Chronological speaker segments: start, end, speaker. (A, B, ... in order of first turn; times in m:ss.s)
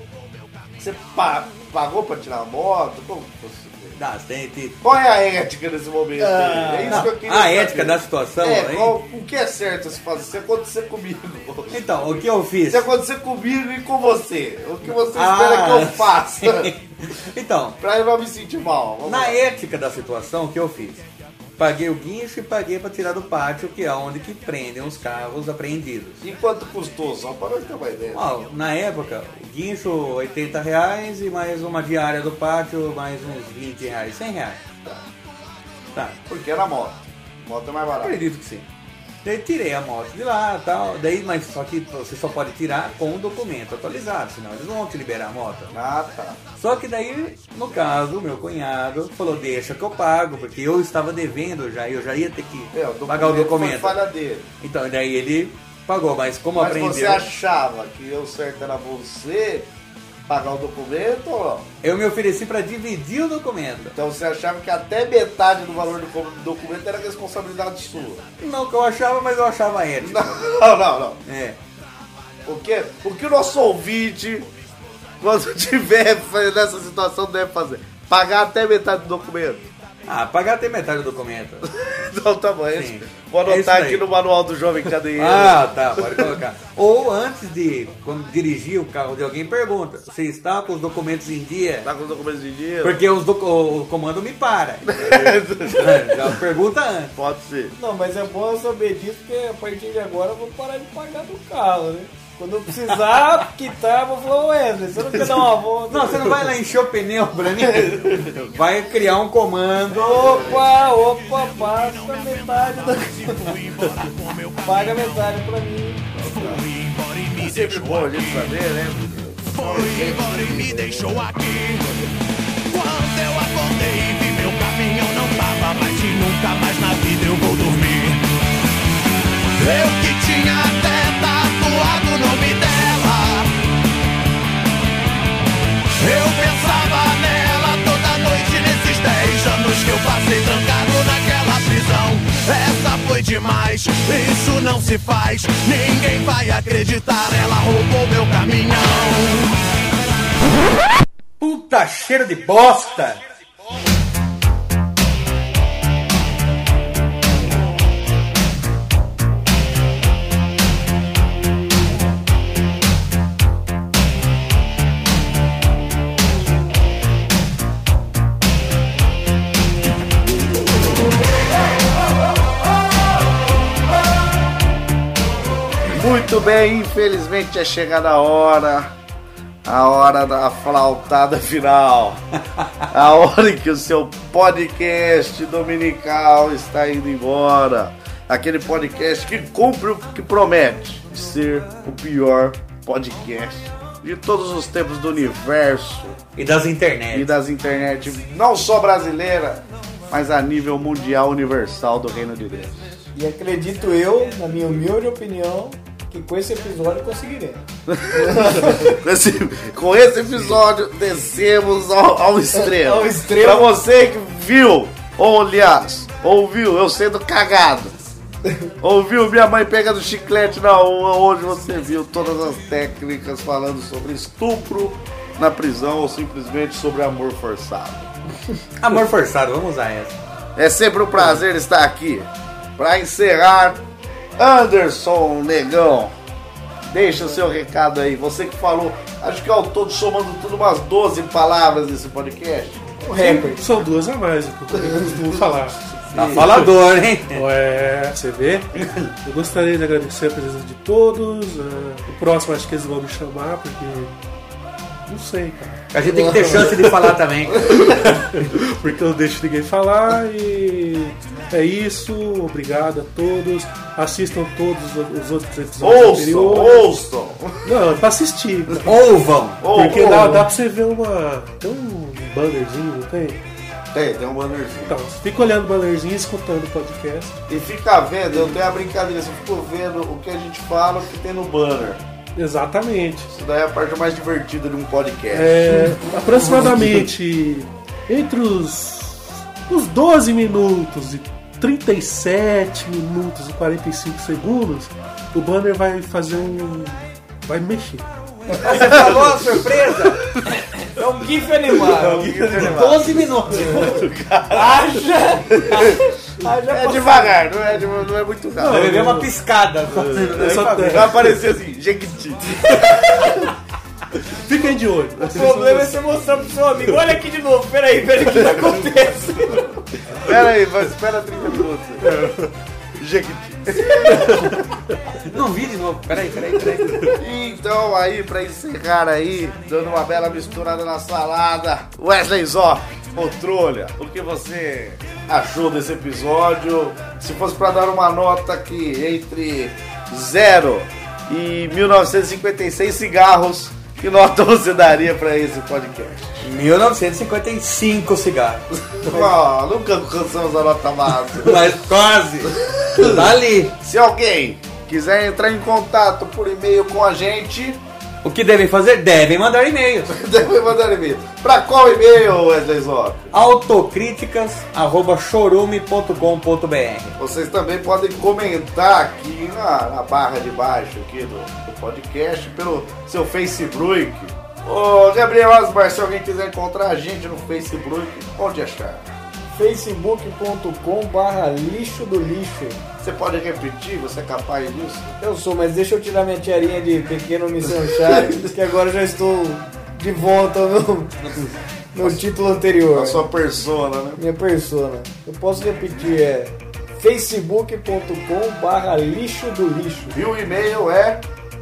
0:00.8-0:04.0 A
0:04.0-0:04.8 B
0:04.8-0:16.7 A
0:06.2-0:07.1 C
0:06.9-0:09.0 B
0:11.7-0:12.9 B
0:15.1-0:17.8 B
0:17.8-0:19.4 A
0:19.1-0:21.0 B
0:21.6-0:26.2 B
0:26.2-0:28.3 A
0:28.1-0:34.6 B
0:35.9-0:36.2 B
0:36.3-0:38.2 A
0:38.0-0:38.7 B
0:39.2-0:45.7 B
0:45.7-0:46.4 A
0:46.6-0:54.1 B
0:52.7-0:54.5 A
0:54.6-0:57.3 B
0:56.6-0:59.7 A
1:00.3-1:01.7 A
1:01.8-1:04.0 B
1:03.9-1:08.2 A
1:08.4-1:10.4 B
1:10.0-1:11.2 A
1:11.3-1:11.6 B
1:12.4-1:14.5 A
1:15.2-1:19.7 A
1:20.1-1:21.7 B
1:21.7-1:26.3 A
1:22.8-1:24.0 B
1:25.2-1:31.9 B
1:31.8-1:33.0 A
1:32.8-1:37.1 B
1:34.9-1:36.4 A
1:37.2-1:37.8 A
1:37.8-1:46.5 C
1:45.9-1:50.2 B
1:47.6-1:48.3 A
1:49.9-1:53.4 C
1:50.0-1:50.8 A
1:50.0-1:55.4 D
1:54.6-1:56.0 C
1:56.2-1:56.7 A
1:56.2-1:58.5 D
1:57.4-2:01.4 A
1:59.4-2:01.9 D
2:02.7-2:08.3 D
2:09.6-2:13.5 D
2:16.0-2:29.6 D
2:31.4-2:33.2 B
2:55.9-2:58.9 A
2:59.6-3:02.2 A
3:02.9-3:16.2 A
3:16.4-3:17.3 B
3:17.1-3:23.0 A
3:23.2-3:29.0 C
3:27.9-3:38.0 A
3:32.6-3:33.7 C
3:38.5-3:38.7 C
3:38.8-3:48.1 A
3:48.8-3:50.2 B
3:50.6-3:53.8 A
3:54.4-3:56.1 A
3:56.9-4:03.0 A
4:03.0-4:03.8 C
4:03.1-4:06.7 E
4:06.1-4:07.5 B
4:06.1-4:06.5 A
4:07.3-4:14.1 E
4:15.1-4:17.0 E
4:15.9-4:18.5 B
4:17.9-4:26.9 E
4:25.8-4:27.7 A
4:27.6-4:28.9 E
4:28.8-4:30.5 B
4:29.6-4:30.4 A
4:29.7-4:33.4 E
4:33.9-4:35.0 A
4:34.8-4:37.4 E
4:37.5-4:42.0 A
4:42.4-4:43.3 E
4:43.3-4:45.8 A
4:45.3-4:58.8 E
4:58.5-5:00.2 B
4:58.8-4:59.1 A
5:00.8-5:02.3 C
5:01.9-5:06.1 A
5:02.1-5:04.1 B
5:04.5-5:07.5 C
5:06.7-5:09.1 A
5:08.6-5:09.3 E
5:08.7-5:11.4 B
5:09.9-5:13.4 A
5:10.0-5:11.3 E
5:14.3-5:16.4 E
5:15.2-5:19.7 C
5:18.3-5:18.8 A
5:20.2-5:22.3 A
5:23.0-5:24.6 A
5:25.2-5:27.2 B
5:27.0-5:46.5 A
5:46.4-5:48.7 B
5:48.9-5:51.8 A
5:51.4-5:53.7 B
5:52.5-5:57.8 A
5:58.2-6:00.1 B
6:00.1-6:03.3 A
6:03.3-6:07.2 B
6:07.2-6:19.1 A
6:19.5-6:22.8 C
6:23.0-6:25.1 A
6:25.2-6:31.2 C
6:27.9-6:28.5 A
6:31.2-6:31.6 B
6:31.9-6:33.3 C
6:32.9-6:34.2 A
6:34.2-6:40.2 C
6:40.1-6:41.2 A